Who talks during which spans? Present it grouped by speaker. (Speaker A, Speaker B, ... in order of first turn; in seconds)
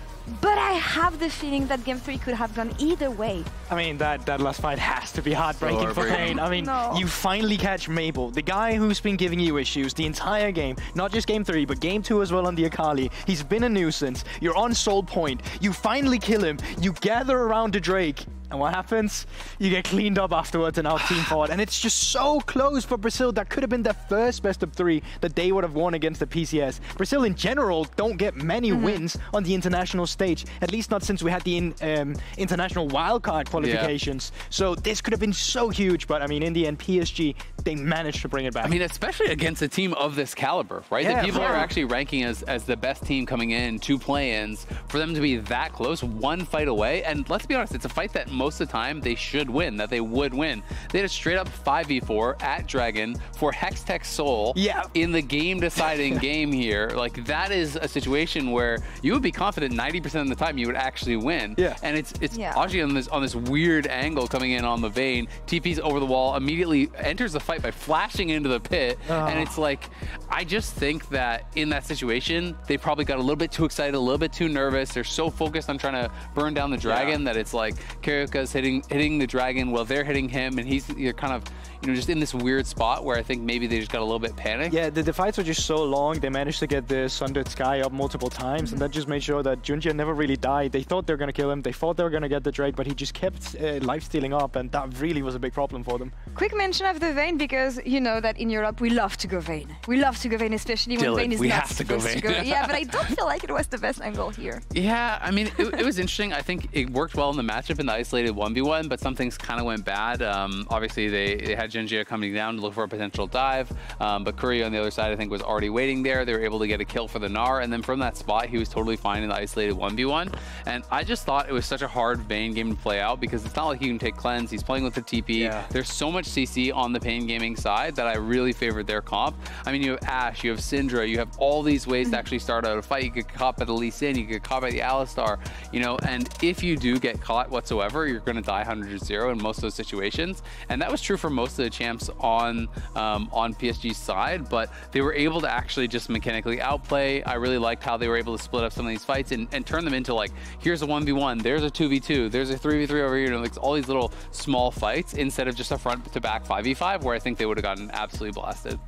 Speaker A: 0.3-3.5, 6.0-7.1, 28.7-29.0, 41.3-41.7, 62.3-62.7, 96.4-104.6
Speaker B: 3.7-38.8, 41.0-41.7, 54.5-54.9, 55.8-56.2, 69.1-69.5, 76.8-77.2, 84.7-96.2, 125.3-125.7
Speaker C: 5.6-6.5, 33.6-33.9, 38.6-84.8, 101.0-103.2, 104.7-158.8